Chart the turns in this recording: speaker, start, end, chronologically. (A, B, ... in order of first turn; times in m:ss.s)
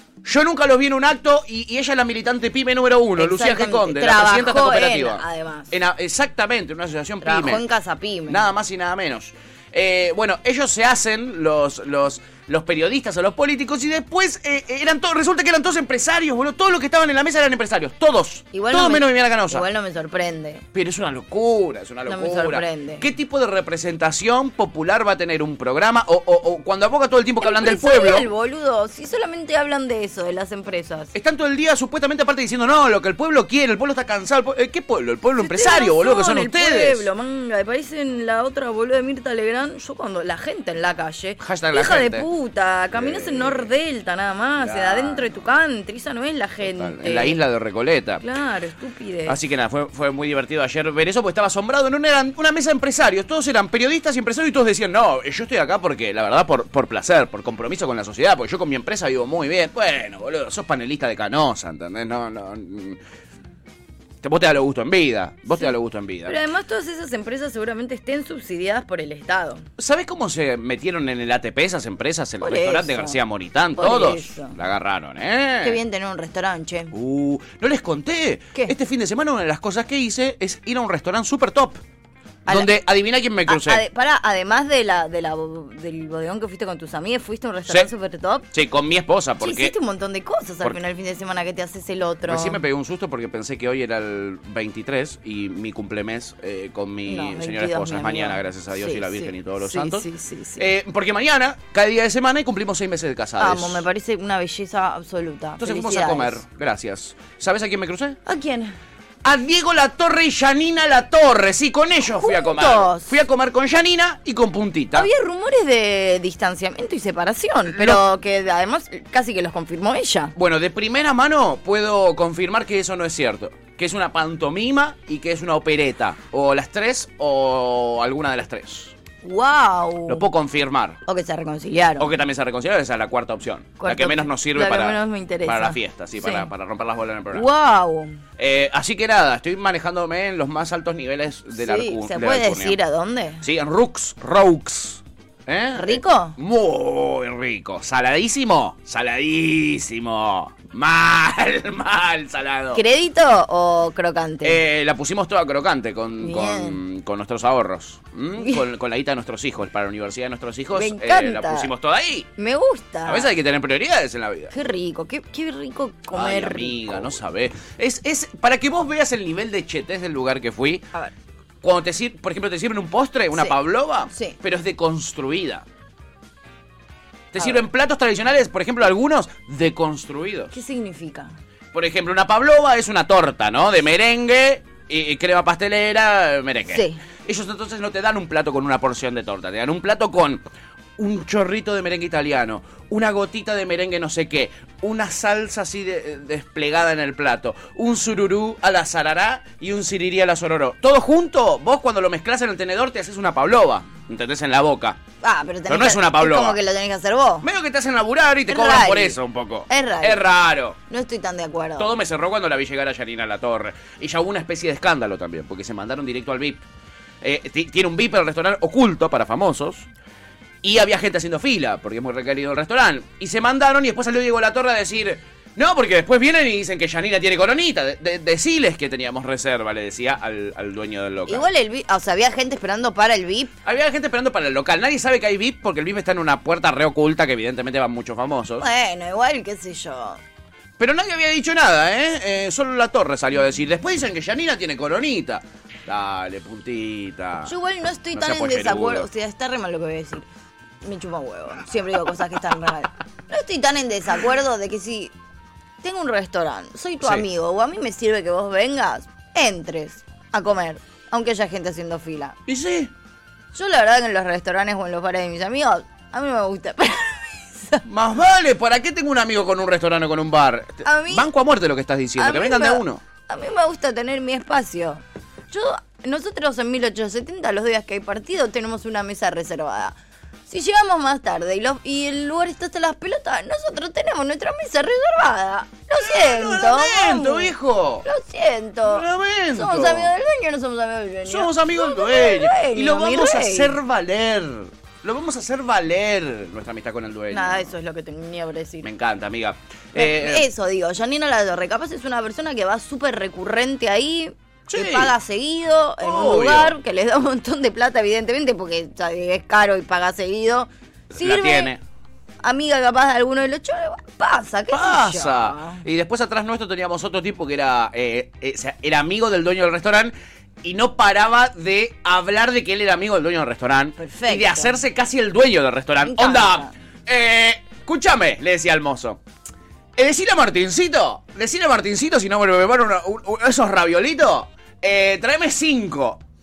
0:00.2-0:07.6 A
0:03.2-0:05.7 B
0:07.2-0:08.5 B
0:08.3-0:19.6 A
0:18.5-0:20.6 B
0:20.7-0:28.3 A
0:22.1-0:23.0 B
0:27.4-0:31.1 B
0:31.1-0:37.1 A
0:35.4-0:47.4 B
0:41.4-0:42.3 A
0:42.9-0:43.7 A
0:44.6-0:45.4 A
0:46.6-0:48.2 A
0:48.2-0:49.4 B
0:49.2-1:03.0 A
1:04.2-1:06.4 A
1:06.2-1:09.6 B
1:09.8-1:15.8 A
1:12.4-1:13.2 B
1:13.7-1:14.5 B
1:15.6-1:16.9 B
1:16.9-1:21.8 A
1:22.4-1:22.7 B
1:22.5-1:23.8 A
1:23.5-1:28.5 B
1:28.5-1:29.7 A
1:29.4-1:32.6 B
1:32.2-1:40.1 A
1:37.0-1:40.7 B
1:40.6-1:43.8 A
1:43.4-1:46.4 B
1:45.6-1:48.2 A
1:48.2-1:48.8 B
1:49.2-1:55.1 A
1:52.0-1:53.1 B
1:54.9-2:00.3 B
1:57.7-1:58.0 A
2:00.4-2:08.9 A
2:09.2-2:10.2 B
2:10.1-2:11.0 A
2:11.1-2:12.1 B
2:12.0-2:17.5 A
2:13.8-2:16.5 B
2:17.3-2:18.2 B
2:18.4-2:22.8 A
2:21.5-2:23.4 B
2:23.4-2:32.8 A
2:25.8-2:26.4 B
2:32.7-2:34.6 B
2:34.4-2:42.3 A
2:36.2-2:36.8 B
2:38.4-2:38.6 B
2:40.7-2:41.7 B
2:42.4-2:43.3 B
2:43.0-2:44.5 A
2:44.5-2:47.2 B
2:46.1-2:50.9 A
2:51.6-2:55.6 A
2:54.1-2:54.4 B
2:57.3-3:00.5 A
2:57.4-2:57.6 B
3:00.5-3:01.3 B
3:01.7-3:10.4 A
3:06.7-3:07.0 B
3:11.0-3:25.0 A
3:25.2-3:27.4 B
3:25.7-3:26.6 A
3:27.4-3:30.8 A
3:28.5-3:29.2 B
3:29.7-3:30.2 B
3:30.9-3:31.9 B
3:31.8-3:36.6 A
3:37.2-3:39.9 A
3:40.6-3:51.5 A
3:51.3-3:53.5 B
3:53.6-3:58.6 A
3:58.6-4:00.2 B
4:00.8-4:07.5 A
4:07.4-4:10.2 B
4:08.1-4:09.1 A
4:10.8-4:15.1 B
4:15.8-4:22.4 B
4:22.5-4:22.9 A
4:23.5-4:27.8 B
4:27.8-4:33.0 A
4:30.8-4:31.3 B
4:32.2-4:39.9 B
4:40.5-4:47.5 B
4:46.0-4:48.0 A
4:48.0-4:53.8 B
4:48.8-4:50.1 A
4:51.2-4:57.7 A
4:57.3-4:58.9 B
4:58.8-5:00.4 A
4:59.9-5:11.7 B
5:04.7-5:05.1 A
5:06.0-5:06.7 A
5:11.1-5:11.8 A
5:12.4-5:15.8 B
5:14.7-5:29.2 A
5:24.0-5:24.8 B
5:26.0-5:26.7 B
5:30.0-5:36.2 A